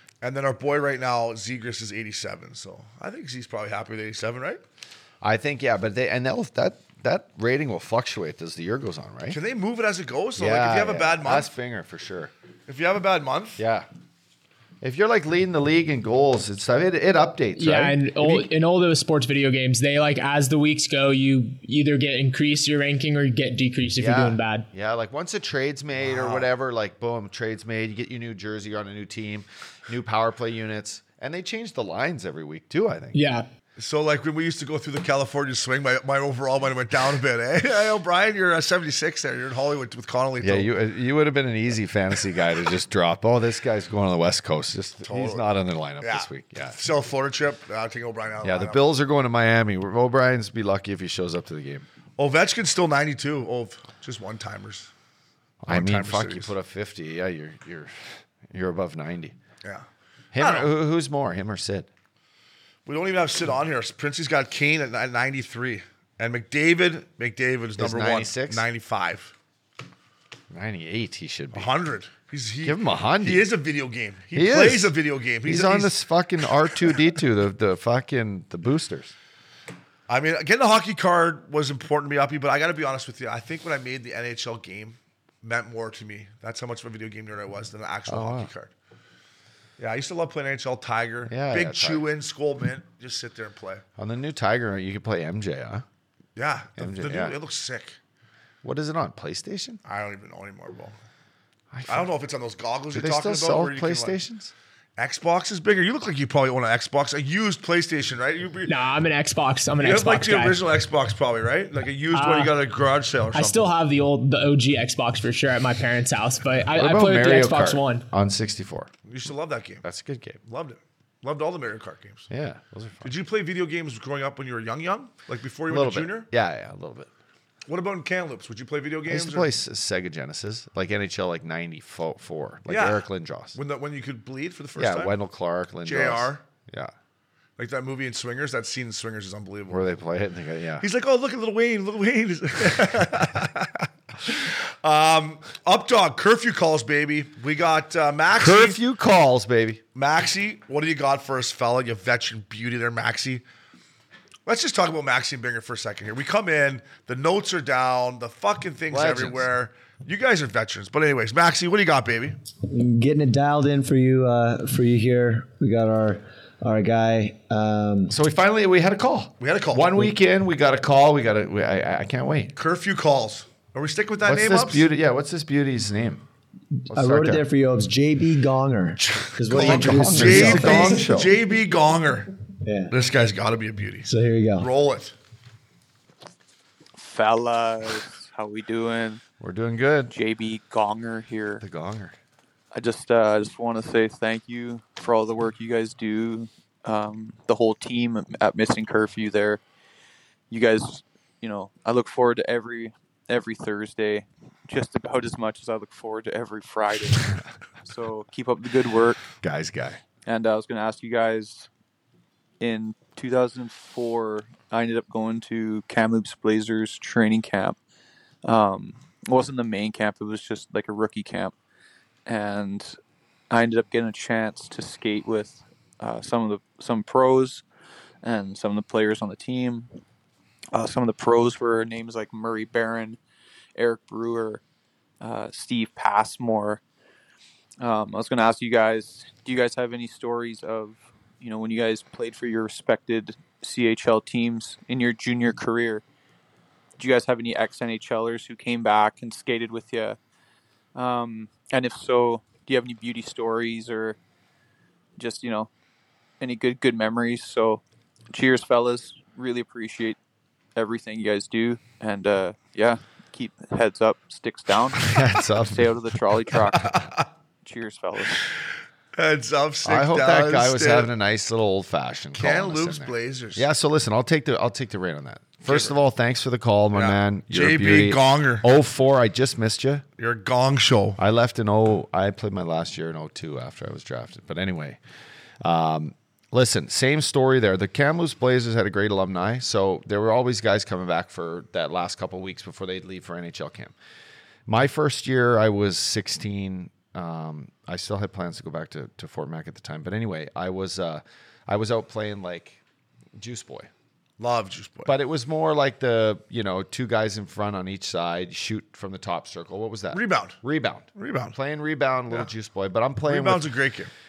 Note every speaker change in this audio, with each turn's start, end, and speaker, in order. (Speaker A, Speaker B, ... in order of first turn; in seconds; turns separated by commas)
Speaker A: 0.2-4.6, Speaker B: 5.2-9.4, Speaker A: 9.3-11.5, Speaker B: 10.4-12.3, Speaker A: 12.7-13.6, Speaker B: 13.6-13.9, Speaker B: 14.8-18.5, Speaker C: 17.5-24.7, Speaker B: 24.0-33.2, Speaker A: 26.0-26.5, Speaker C: 33.1-33.5, Speaker A: 33.8-40.7, Speaker B: 40.4-46.8, Speaker A: 45.0-45.5, Speaker A: 46.0-48.8, Speaker B: 48.4-51.9, Speaker A: 52.2-54.9, Speaker B: 55.6-59.3, Speaker A: 55.7-56.5, Speaker B: 60.3-61.9, Speaker A: 60.4-60.7, Speaker A: 62.9-69.3, Speaker B: 67.8-68.6, Speaker B: 70.5-71.7, Speaker A: 71.5-76.0, Speaker B: 72.6-73.5, Speaker B: 74.3-79.1, Speaker A: 80.1-88.7, Speaker B: 88.1-88.5, Speaker A: 89.8-93.8, Speaker B: 91.3-92.0, Speaker B: 94.0-95.8, Speaker A: 96.3-98.0, Speaker B: 96.8-97.4, Speaker B: 98.6-99.8, Speaker A: 99.8-101.0, Speaker B: 101.7-102.1, Speaker A: 101.9-104.2, Speaker B: 102.9-104.5, Speaker A: 105.0-108.7, Speaker C: 108.7-110.6, Speaker A: 109.8-113.6, Speaker C: 112.1-112.5, Speaker C: 113.3-118.0, Speaker B: 116.7-118.9, Speaker A: 119.1-119.8, Speaker B: 119.8-120.4, Speaker A: 120.4-122.3, Speaker B: 122.3-123.1, Speaker A: 123.0-126.3, Speaker B: 125.7-127.1, Speaker A: 127.7-129.5, Speaker B: 129.1-133.6, Speaker A: 132.7-135.2, Speaker B: 134.8-136.9, Speaker A: 135.8-136.4, Speaker A: 137.6-139.8, Speaker B: 139.7-140.8, Speaker A: 140.8-148.8, Speaker B: 148.3-149.8, Speaker A: 149.9-153.4, Speaker A: 154.4-162.3, Speaker B: 158.9-159.5, Speaker D: 162.7-168.2, Speaker B: 168.1-172.5, Speaker A: 169.4-170.1, Speaker A: 172.6-174.9, Speaker B: 174.2-176.2, Speaker B: 176.9-177.4, Speaker D: 176.9-181.2, Speaker A: 179.5-182.3, Speaker B: 179.5-181.3, Speaker D: 182.6-182.9, Speaker A: 182.9-185.1, Speaker D: 184.1-184.7, Speaker E: 187.0-189.2, Speaker B: 189.4-190.2, Speaker E: 190.1-191.6, Speaker B: 191.6-192.2, Speaker E: 192.7-199.6, Speaker E: 200.5-209.2, Speaker B: 209.4-210.0, Speaker E: 210.2-211.7, Speaker E: 212.6-217.8, Speaker E: 218.4-221.5, Speaker E: 222.2-222.9, Speaker E: 223.5-227.6, Speaker E: 228.2-229.9, Speaker E: 230.7-233.2, Speaker E: 233.8-234.6, Speaker E: 235.2-236.8, Speaker E: 237.8-246.0, Speaker E: 247.0-250.2, Speaker E: 250.9-254.2, Speaker E: 255.2-255.7, Speaker E: 256.4-260.2, Speaker E: 260.8-268.4, Speaker B: 265.0-266.0, Speaker A: 266.9-267.2, Speaker A: 269.1-271.1, Speaker B: 269.8-280.0, Speaker A: 272.3-273.6, Speaker A: 275.6-276.0, Speaker A: 276.9-278.7, Speaker A: 280.2-281.2, Speaker B: 281.2-285.0, Speaker B: 285.6-293.9, Speaker B: 294.7-302.8, Speaker B: 303.4-303.9, Speaker A: 304.4-305.1, Speaker B: 305.1-313.7, Speaker A: 310.1-310.6, Speaker A: 311.1-311.6, Speaker A: 313.2-314.1